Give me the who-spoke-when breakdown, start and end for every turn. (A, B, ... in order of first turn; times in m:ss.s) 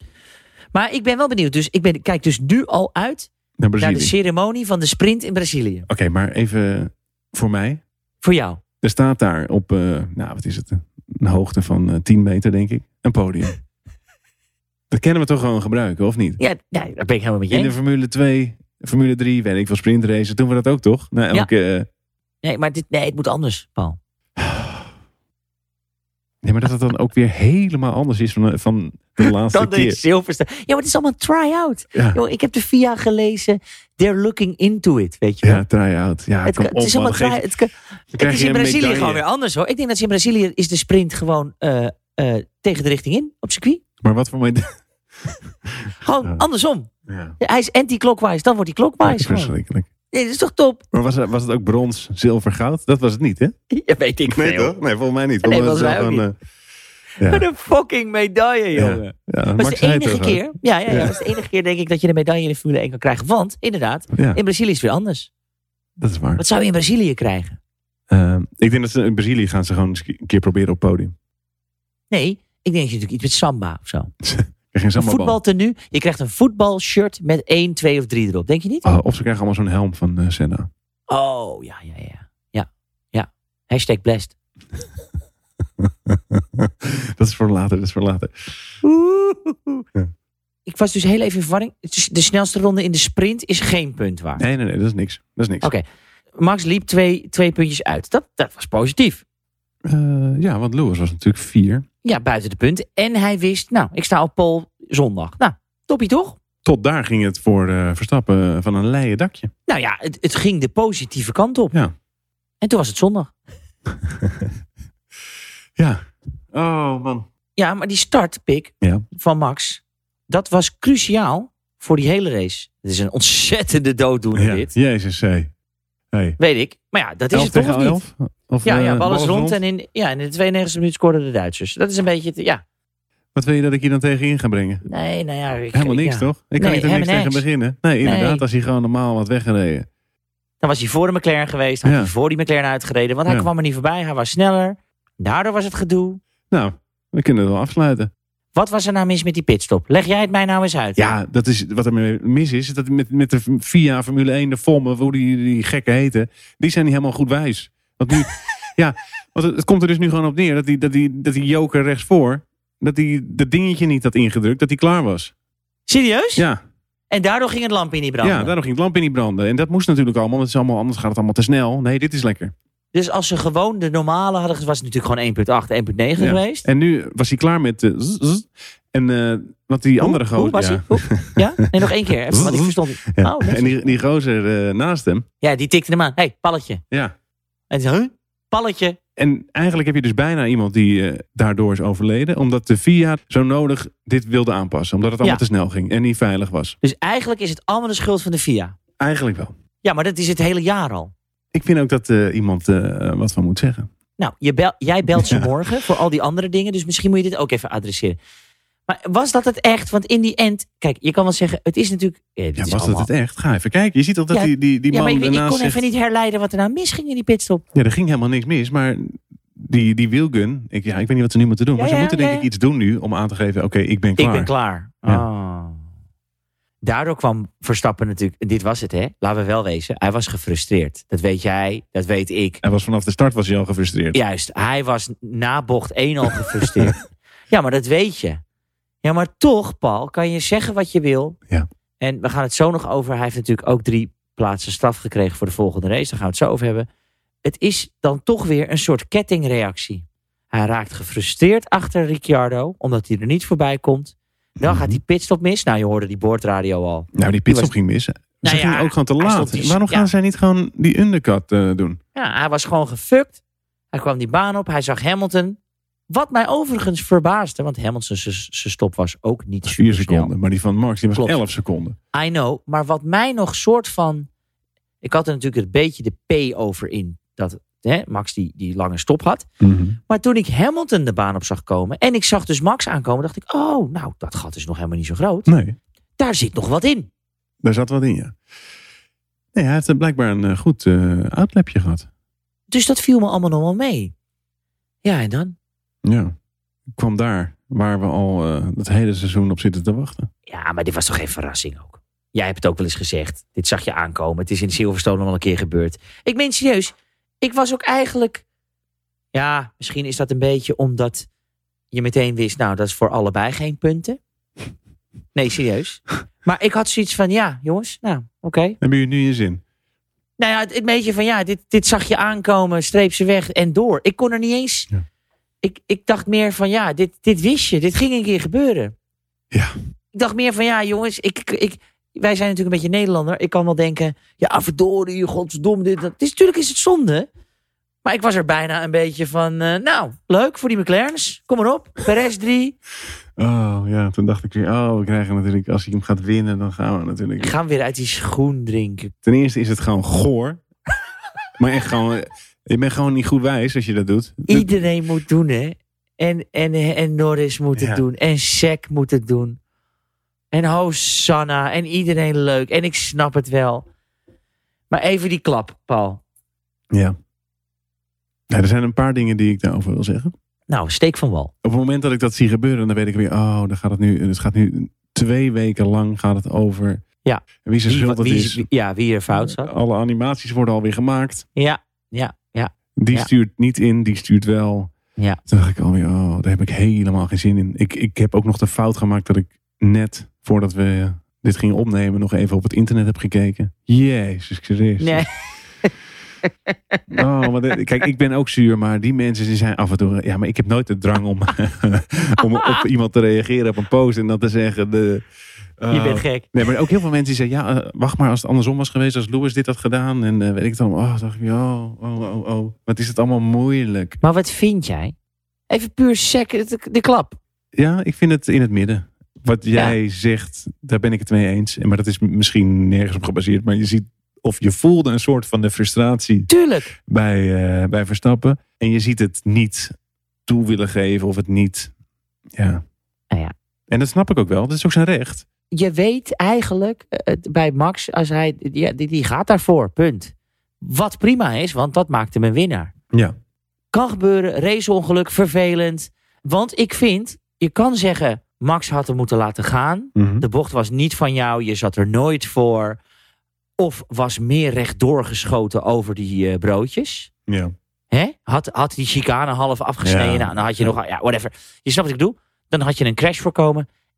0:00.7-0:05.9 A
0:03.6-0:04.1 B
0:05.9-0:07.8 B
0:08.2-0:08.6 A
0:08.8-0:13.6 B
0:14.9-0:16.4 B
0:16.4-0:17.7 A
0:17.5-0:21.9 B
0:22.4-0:24.0 A
0:24.4-0:24.9 B
0:26.4-0:30.0 B
0:29.5-0:35.6 A
0:31.9-0:32.2 B
0:35.4-0:37.4 B
0:36.4-0:43.8 A
0:38.1-0:39.2 B
0:44.0-0:46.4 B
0:46.0-0:49.5 A
0:47.1-0:47.4 B
0:49.0-0:49.9 B
0:50.1-0:50.8 A
0:50.9-0:53.5 B
0:53.7-0:54.8 A
0:54.3-0:56.3 B
0:55.4-0:56.2 A
0:57.2-0:57.4 B
0:57.2-1:05.3 A
0:58.8-1:01.2 B
1:04.1-1:04.4 B
1:06.0-1:06.4 B
1:06.4-1:07.6 A
1:08.1-1:11.1 B
1:12.1-1:14.1 A
1:14.2-1:15.4 B
1:15.0-1:18.9 A
1:18.8-1:20.7 B
1:21.1-1:24.3 A
1:25.8-1:28.6 B
1:28.8-1:29.8 A
1:30.6-1:34.4 A
1:34.4-1:35.7 B
1:36.3-1:39.2 A
1:39.8-1:41.8 B
1:42.0-1:46.4 A
1:46.6-1:49.5 B
1:49.7-1:51.8 A
1:52.6-1:53.3 A
1:54.0-1:54.5 B
1:55.8-1:57.3 B
1:57.6-2:04.7 A
2:04.3-2:05.5 B
2:06.1-2:06.4 B
2:06.4-2:08.0 A
2:07.3-2:09.6 B
2:08.6-2:12.6 A
2:13.3-2:14.8 B
2:14.8-2:17.4 A
2:15.7-2:19.9 B
2:18.0-2:18.4 A
2:20.6-2:26.2 A
2:21.8-2:22.1 B
2:26.5-2:28.1 B
2:28.5-2:31.1 A
2:31.0-2:45.3 B
2:45.9-2:46.4 A
2:46.4-2:46.6 B
2:47.1-2:48.5 A
2:48.2-2:52.5 B
2:52.9-2:56.6 A
2:56.2-3:01.5 B
3:00.0-3:03.9 A
3:02.3-3:05.2 B
3:05.4-3:06.8 A
3:07.7-3:09.0 A
3:09.2-3:16.8 B
3:16.8-3:18.8 A
3:19.0-3:19.5 B
3:19.8-3:21.1 A
3:21.5-3:23.9 B
3:24.2-3:28.2 A
3:25.1-3:25.5 B
3:28.9-3:33.1 A
3:32.6-3:35.8 B
3:34.3-3:37.6 A
3:37.7-3:44.5 B
3:41.7-3:42.5 A
3:44.2-3:45.8 A
3:46.8-3:52.6 A
3:52.6-3:54.2 B
3:54.1-3:58.4 A
3:59.0-4:01.4 A
4:02.0-4:06.9 A
4:07.4-4:17.7 A
4:14.6-4:15.0 B
4:17.1-4:22.0 B
4:18.4-4:20.1 A
4:22.1-4:23.4 A
4:23.9-4:25.6 A
4:26.1-4:30.3 A
4:29.6-4:32.0 B
4:32.1-4:34.3 A
4:35.0-4:39.5 A
4:39.6-4:40.0 B
4:40.1-4:45.5 A
4:45.5-4:45.8 B
4:46.2-4:47.1 A
4:47.6-4:48.4 B
4:49.5-4:52.1 B
4:52.7-4:54.1 A
4:55.0-4:55.5 A
4:56.0-4:56.3 B
4:56.9-5:00.3 B
5:00.5-5:08.4 A
5:09.3-5:11.3 A
5:11.9-5:14.2 A
5:15.3-5:18.8 A
5:18.8-5:19.6 B
5:20.4-5:24.9 A
5:25.6-5:28.9 A
5:30.1-5:37.3 A
5:38.0-5:42.7 A
5:43.4-5:47.5 B
5:47.4-5:49.1 A
5:49.2-5:50.6 B
5:51.6-5:54.7 B
5:54.5-5:59.6 A
5:57.8-5:58.0 B
6:00.5-6:03.9 A
6:04.9-6:06.2 A
6:08.5-6:10.3 B
6:10.7-6:11.5 A
6:11.6-6:17.0 B
6:17.2-6:19.7 A
6:17.6-6:18.6 B
6:19.3-6:21.4 B
6:21.5-6:23.3 A
6:23.0-6:24.9 B
6:25.5-6:35.3 B
6:35.0-6:35.3 A
6:36.4-6:37.0 A
6:37.1-6:45.2 B
6:42.4-6:42.8 A
6:45.8-6:54.2 B
6:45.9-6:46.5 A
6:54.2-6:55.1 A
6:55.7-6:57.4 A
6:57.7-7:09.9 B
7:06.5-7:06.9 A
7:10.5-7:11.9 B
7:12.5-7:12.8 B
7:13.9-7:15.4 B
7:15.7-7:22.9 A
7:23.9-7:33.0 A
7:30.2-7:30.4 B
7:33.8-7:37.3 A
7:37.5-7:37.7 B
7:38.1-7:43.9 A
7:40.0-7:40.9 B